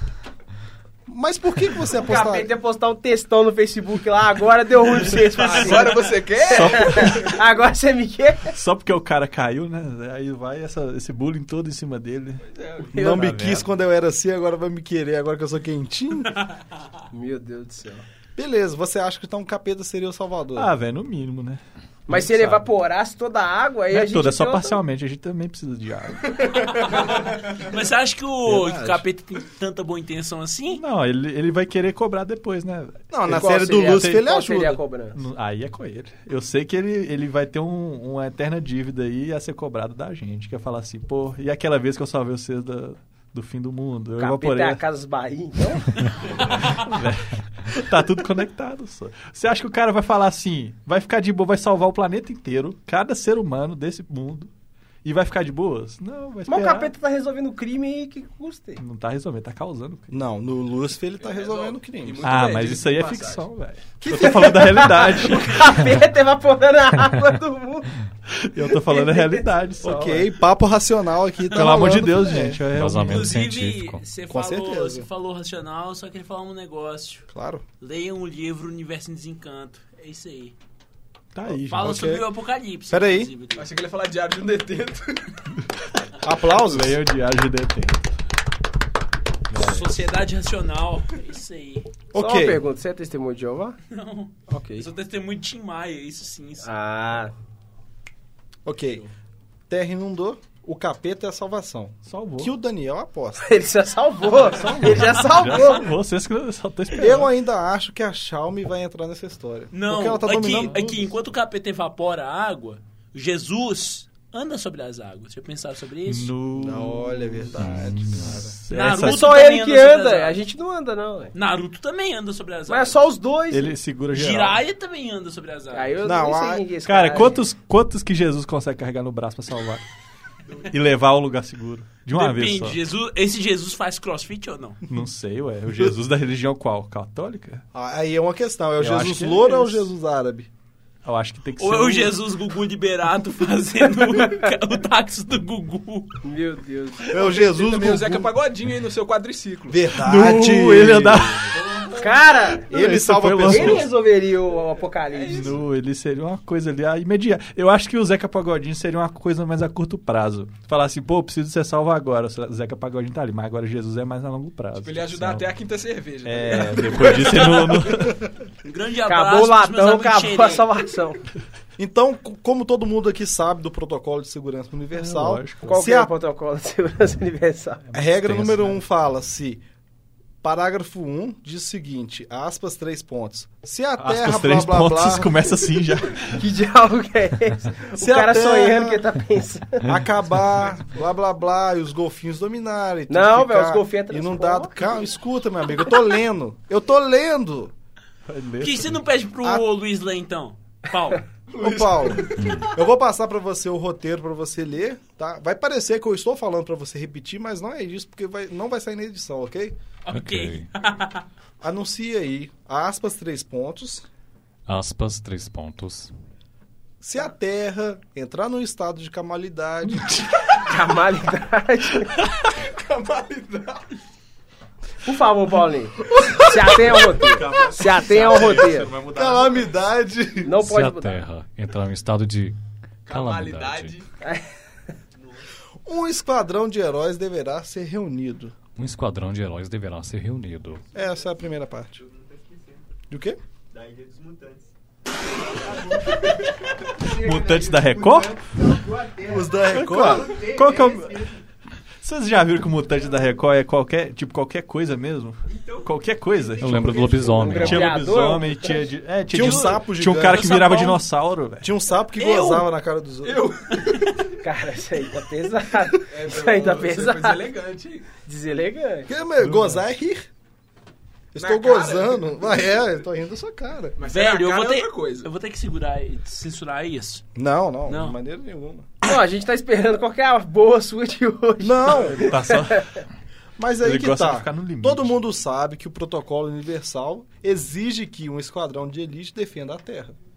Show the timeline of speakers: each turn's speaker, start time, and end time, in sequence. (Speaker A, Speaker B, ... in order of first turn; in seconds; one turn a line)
Speaker A: 1.1-2.5
Speaker B: 1.9-8.5
Speaker C: 5.0-7.3
Speaker D: 5.6-5.9
Speaker D: 6.5-7.4
Speaker D: 8.5-12.4
Speaker C: 12.5-12.9
Speaker A: 12.9-16.4
Speaker B: 12.9-13.3
Speaker D: 13.0-13.7
Speaker B: 17.1-18.1
Speaker A: 18.4-20.7
Speaker D: 20.6-22.6
Speaker B: 22.1-24.8
Speaker D: 23.9-26.4
Speaker E: 26.7-30.8
Speaker A: 28.5-29.1
Speaker D: 30.7-33.1
Speaker A: 33.1-34.8
Speaker B: 33.3-35.2
Speaker D: 35.1-44.8
Speaker B: 44.2-46.0
Speaker D: 46.3-54.5
Speaker D: 55.0-56.9
Speaker B: 56.5-58.8
Speaker D: 58.8-60.2
Speaker A: 60.1-62.3
Speaker C: 61.2-63.5
Speaker D: 62.2-65.8
Speaker A: 64.0-64.9
Speaker B: 64.1-68.0
Speaker D: 68.3-70.3
Speaker B: 68.7-69.5
Speaker A: 69.8-72.6
Speaker D: 71.5-73.5
Speaker F: 72.7-74.0
Speaker E: 73.0-77.3
Speaker A: 74.3-75.1
Speaker A: 77.3-77.6
Speaker E: 77.8-80.5
Speaker D: 81.3-82.2
Speaker E: 81.7-83.7
Speaker A: 81.8-82.2
Speaker A: 82.9-83.3
Speaker C: 83.5-85.3
Speaker A: 86.2-87.0
Speaker D: 86.5-88.0
Speaker D: 89.5-90.0
Speaker E: 89.5-91.9
Speaker A: 92.1-92.6
Speaker B: 92.2-93.8
Speaker E: 93.9-96.7
Speaker B: 94.5-94.9
Speaker B: 96.6-97.3
Speaker A: 98.7-99.0
Speaker A: 99.7-103.4
Speaker D: 102.0-102.5
Speaker B: 103.4-105.9
Speaker D: 104.4-107.3
Speaker A: 107.0-110.8
Speaker E: 109.7-116.3
Speaker D: 110.5-111.0
Speaker D: 116.0-119.5
Speaker A: 116.6-118.6
Speaker F: 117.6-118.4
Speaker E: 118.7-120.4
Speaker B: 118.9-121.3
Speaker E: 121.3-123.0
Speaker B: 122.7-123.8
Speaker D: 123.5-124.6
Speaker E: 124.1-126.0
Speaker B: 125.7-127.5
Speaker A: 126.0-126.7
Speaker D: 126.8-129.8
Speaker D: 130.7-132.8
Speaker E: 132.1-134.8
Speaker D: 134.9-137.7
Speaker A: 137.7-140.5
Speaker D: 138.8-139.8
Speaker D: 141.1-142.2
Speaker E: 141.6-146.2
Speaker B: 144.0-144.5
Speaker B: 146.2-147.5
Speaker A: 147.1-148.3
Speaker C: 147.2-149.9
Speaker A: 149.7-151.5
Speaker D: 149.9-151.6
Speaker C: 151.5-152.4
Speaker B: 151.9-152.7
Speaker A: 152.7-153.9
Speaker D: 152.7-153.9
Speaker B: 153.5-155.5
Speaker C: 155.1-155.7
Speaker D: 155.3-165.5
Speaker C: 164.8-167.7
Speaker D: 166.2-168.2
Speaker E: 168.6-170.7
Speaker B: 169.1-171.2
Speaker A: 171.8-176.1
Speaker D: 174.9-175.8
Speaker B: 175.7-177.8
Speaker D: 177.9-178.8
Speaker A: 177.9-179.6
Speaker A: 180.4-185.5
Speaker D: 184.0-186.4
Speaker B: 186.4-189.9
Speaker A: 187.9-189.0
Speaker A: 189.8-197.7
Speaker B: 193.1-194.9
Speaker D: 198.3-199.0
Speaker E: 198.6-201.2
Speaker C: 201.5-202.7
Speaker A: 201.6-209.8
Speaker F: 202.3-202.7
Speaker E: 210.0-211.2
Speaker F: 210.1-210.7
Speaker A: 211.6-214.1
Speaker F: 214.7-216.1
Speaker A: 217.0-220.2
Speaker D: 219.9-220.3
Speaker B: 220.5-222.1
Speaker C: 222.4-223.8
Speaker B: 225.0-228.9
Speaker D: 227.1-229.7
Speaker A: 229.1-230.6
Speaker B: 230.4-231.2
Speaker F: 230.6-234.0
Speaker C: 233.1-234.1
Speaker B: 234.2-234.5
Speaker G: 235.2-235.4
Speaker A: 235.8-238.6
Speaker F: 238.8-240.8
Speaker G: 240.8-242.9
Speaker A: 240.9-242.0
Speaker A: 243.1-243.4
Speaker G: 243.7-244.7
Speaker G: 245.5-251.4
Speaker D: 247.1-248.4
Speaker A: 249.3-250.3
Speaker D: 249.8-251.2
Speaker D: 252.0-261.7
Speaker G: 255.5-257.6
Speaker F: 256.6-258.0
Speaker B: 257.4-258.9
Speaker A: 259.3-260.8
Speaker E: 260.3-261.0
Speaker A: 261.6-263.5
Speaker E: 262.2-262.7
Speaker C: 263.2-264.2
Speaker E: 263.7-264.2
Speaker B: 264.4-267.4
Speaker C: 266.1-268.1
Speaker B: 268.3-269.1
Speaker A: 269.1-270.3
Speaker D: 269.4-269.8
Speaker A: 271.3-274.0
Speaker C: 271.4-272.8
Speaker C: 274.0-275.3
Speaker E: 274.1-277.2
Speaker A: 277.4-278.9
Speaker E: 277.9-278.2
Speaker B: 279.0-283.0
Speaker A: 281.6-282.3
Speaker D: 282.1-282.9
Speaker A: 283.6-290.2
Speaker D: 283.8-285.1